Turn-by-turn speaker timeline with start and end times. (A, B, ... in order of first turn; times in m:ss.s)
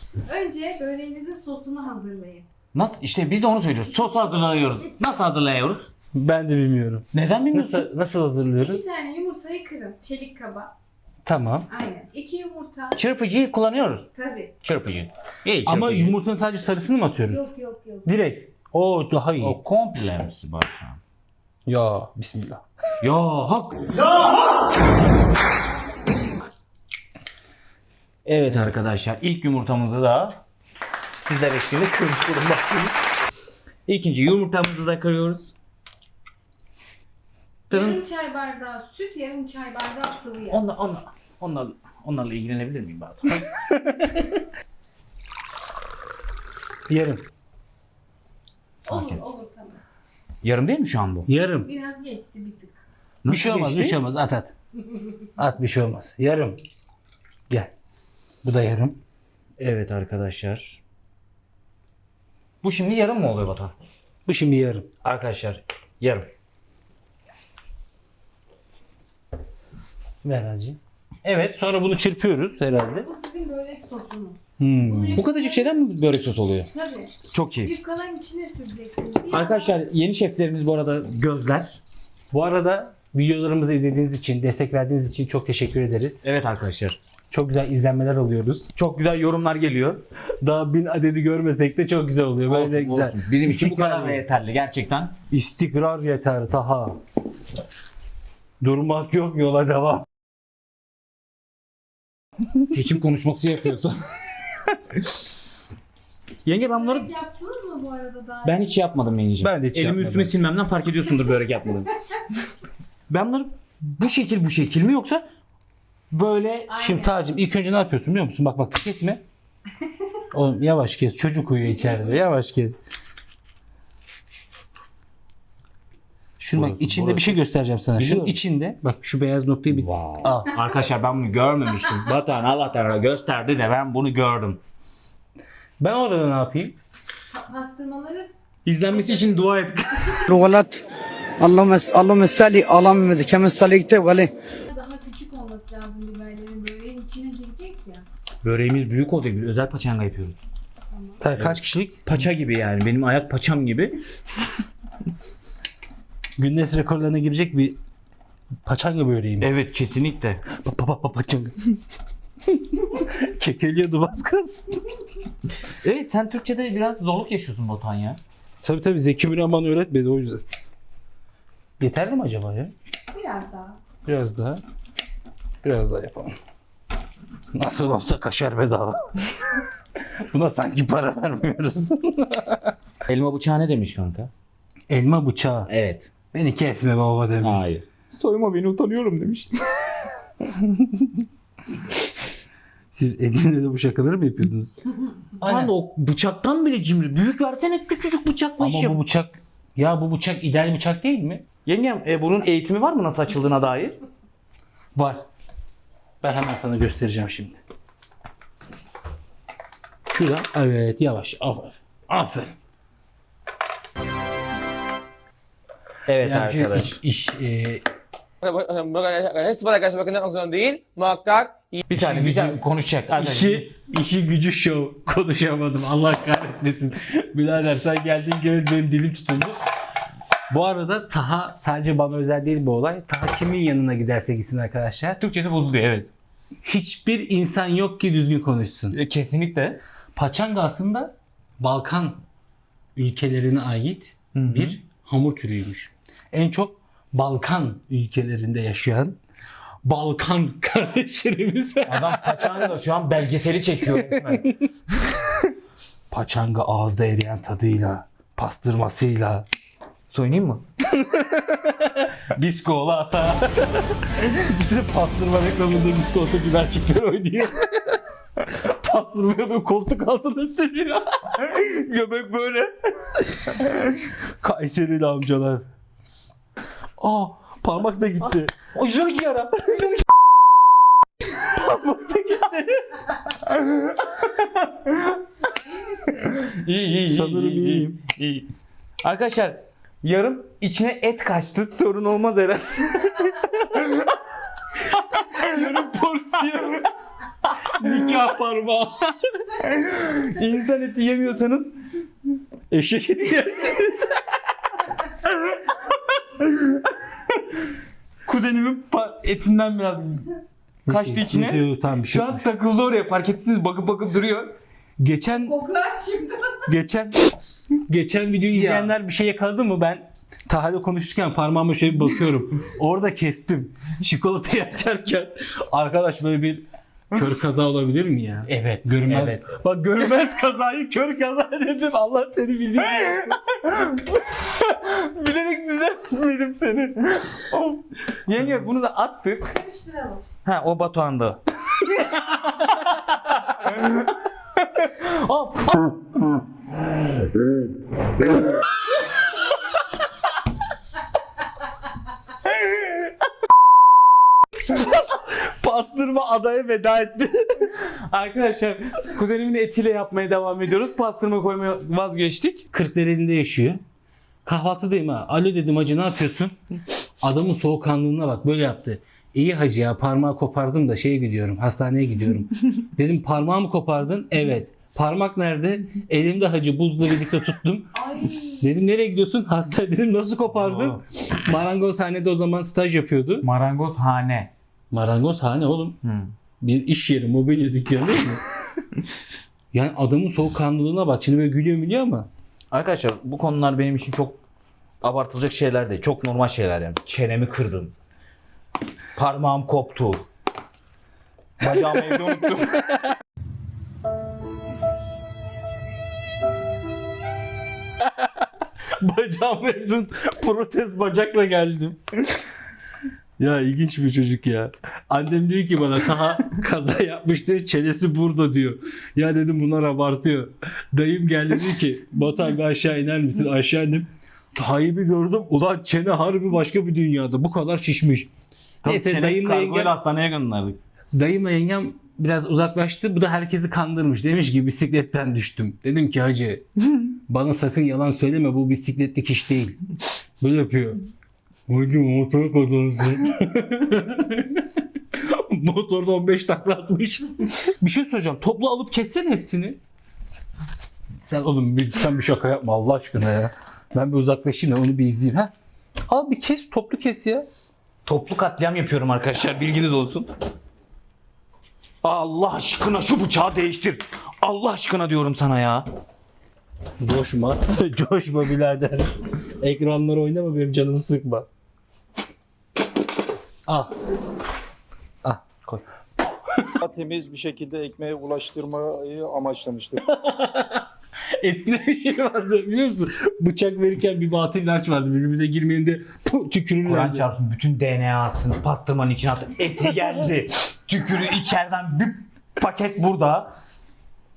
0:00.2-0:02.4 A
0:02.7-0:05.9 B
0:06.1-0:08.8 C
0:07.1-0:07.9 B
0:08.6-0:10.7 A
0:11.2-0:11.7 C
0:11.7-0:13.0 A
0:12.9-0:14.1 B
0:14.2-0:14.5 A
0:14.6-0:16.2 B
0:15.6-0:17.5 C
0:17.3-0:18.1 A
0:18.0-0:19.6 C
0:19.4-0:21.0 B
0:21.7-0:22.6 C
0:23.0-0:24.2 B
0:28.2-0:30.4 B
0:31.1-0:32.9 B
0:33.9-0:35.5 B
0:37.7-0:38.0 B
0:37.7-0:40.6 A
0:40.5-0:43.4 B
0:43.7-0:44.4 C
0:46.9-0:47.2 C
0:48.8-0:49.8 A
0:48.9-0:49.2 B
0:50.4-0:51.3 B
0:51.3-0:51.7 C
0:51.6-0:52.8 A
0:53.2-0:54.0 B
0:53.3-0:54.5 C
0:55.4-0:56.6 C
0:58.4-0:59.0 C
0:59.6-1:00.8 B
1:02.6-1:03.7 B
1:04.2-1:04.9 C
1:05.0-1:06.3 B
1:10.2-1:13.1 C
1:13.0-1:15.8 A
1:14.6-1:15.2 C
1:15.1-1:16.7 B
1:16.7-1:19.8 A
1:17.3-1:17.8 B
1:19.3-1:21.8 B
1:22.3-1:26.2 C
1:26.2-1:27.0 B
1:27.3-1:28.7 C
1:28.8-1:30.0 B
1:30.4-1:34.2 C
1:32.4-1:35.2 B
1:35.3-1:37.0 C
1:38.6-1:40.1 C
1:42.7-1:44.0 B
1:46.4-1:47.1 B
1:46.7-1:48.7 A
1:48.4-1:51.9 B
1:49.4-1:50.3 C
1:53.1-1:55.2 B
1:56.1-1:56.7 B
1:56.7-1:57.2 A
1:56.8-1:59.2 C
2:00.3-2:02.8 C
2:01.7-2:02.2 A
2:06.4-2:10.5 C
2:06.5-2:07.4 B
2:08.0-2:08.4 B
2:09.7-2:14.6 B
2:15.8-2:16.8 C
2:17.3-2:18.3 A
2:18.6-2:20.3 B
2:18.9-2:19.5 A
2:20.3-2:20.8 D
2:21.4-2:24.3 D
2:24.7-2:28.1 A
2:28.4-2:30.4 B
2:30.9-2:31.2 A
2:31.2-2:32.0 C
2:31.3-2:34.0 B
2:36.4-2:37.8 C
2:38.6-2:39.5 C
2:39.4-2:40.4 B
2:40.5-2:41.6 C
2:42.5-2:44.8 C
2:45.8-2:48.2 B
2:48.6-2:50.4 C
2:51.8-2:52.7 C
2:53.1-2:53.8 A
2:54.0-2:54.6 C
2:55.6-2:56.4 C
2:57.5-2:59.5 C
3:00.2-3:02.8 C
3:03.1-3:04.3 B
3:04.9-3:05.7 C
3:05.7-3:06.1 B
3:06.3-3:07.6 C
3:07.4-3:09.7 B
3:10.6-3:11.2 C
3:12.9-3:14.8 C
3:15.4-3:19.0 B
3:18.6-3:21.4 C
3:21.6-3:24.0 B
3:24.9-3:25.2 B
3:26.2-3:27.6 C
3:30.1-3:32.5 C
3:36.1-3:36.9 B
3:36.2-3:37.8 C
3:38.4-3:41.8 E
3:41.9-3:43.7 B
3:41.9-3:42.6 C
3:43.1-3:49.6 C
3:50.5-3:55.2 C
3:55.2-3:56.1 B
3:56.6-3:59.0 C
3:58.9-3:59.8 B
4:00.2-4:02.2 C
4:03.0-4:09.2 C
4:04.3-4:04.8 B
4:09.8-4:12.7 C
4:11.9-4:14.5 B
4:13.9-4:14.7 C
4:16.1-4:19.4 C
4:20.1-4:20.6 B
4:20.9-4:22.3 C
4:22.3-4:23.5 B
4:23.5-4:31.2 C
4:31.3-4:32.7 B
4:34.4-4:35.6 C
4:37.0-4:38.5 C
4:38.6-4:40.1 B
4:41.4-4:42.9 C
4:43.5-4:45.2 B
4:46.2-4:48.5 B
4:47.1-4:48.0 C
4:49.0-4:54.1 B
4:55.2-4:56.8 C
4:55.3-4:56.9 B
4:57.8-4:59.4 C
4:57.8-4:58.4 B
4:59.6-5:01.8 B
5:02.7-5:04.2 C
5:05.2-5:06.9 B
5:08.2-5:10.3 B
5:10.9-5:12.4 C
5:10.9-5:14.5 B
5:15.0-5:15.6 C
5:15.3-5:16.7 A
5:16.6-5:17.3 C
5:17.9-5:33.4 C
5:18.5-5:18.9 B
5:28.4-5:29.4 B
5:33.6-5:39.6 B
5:39.5-5:40.2 A
5:40.4-5:41.4 B
5:42.4-5:46.4 B
5:54.6-5:57.7 C
5:57.8-6:02.7 B
6:02.7-6:03.8 C
6:04.4-6:06.6 C
6:07.2-6:17.9 C
6:17.9-6:18.6 A
6:18.6-6:23.4 C
6:20.5-6:21.0 B
6:23.4-6:24.5 B
6:24.9-6:26.0 C
6:26.0-6:26.3 B
6:26.6-6:28.4 C
6:29.7-6:32.3 C
6:32.7-6:34.4 B
6:35.0-6:37.9 B
6:39.2-6:40.3 B
6:41.6-6:42.9 B
6:41.7-6:42.2 C
6:49.0-6:52.0 C
6:53.4-7:08.3 C
7:08.8-7:09.9 C
7:08.8-7:10.8 B
7:11.1-7:19.8 C
7:20.4-7:21.0 C
7:21.7-7:29.8 C
7:31.2-7:35.5 C
7:36.1-7:37.5 C
7:38.0-7:40.3 B
7:42.0-7:45.9 B
7:47.0-7:51.5 C
7:53.7-7:53.9 C
7:56.8-8:00.0 F
8:00.0-8:07.2 C
8:06.8-8:13.6 B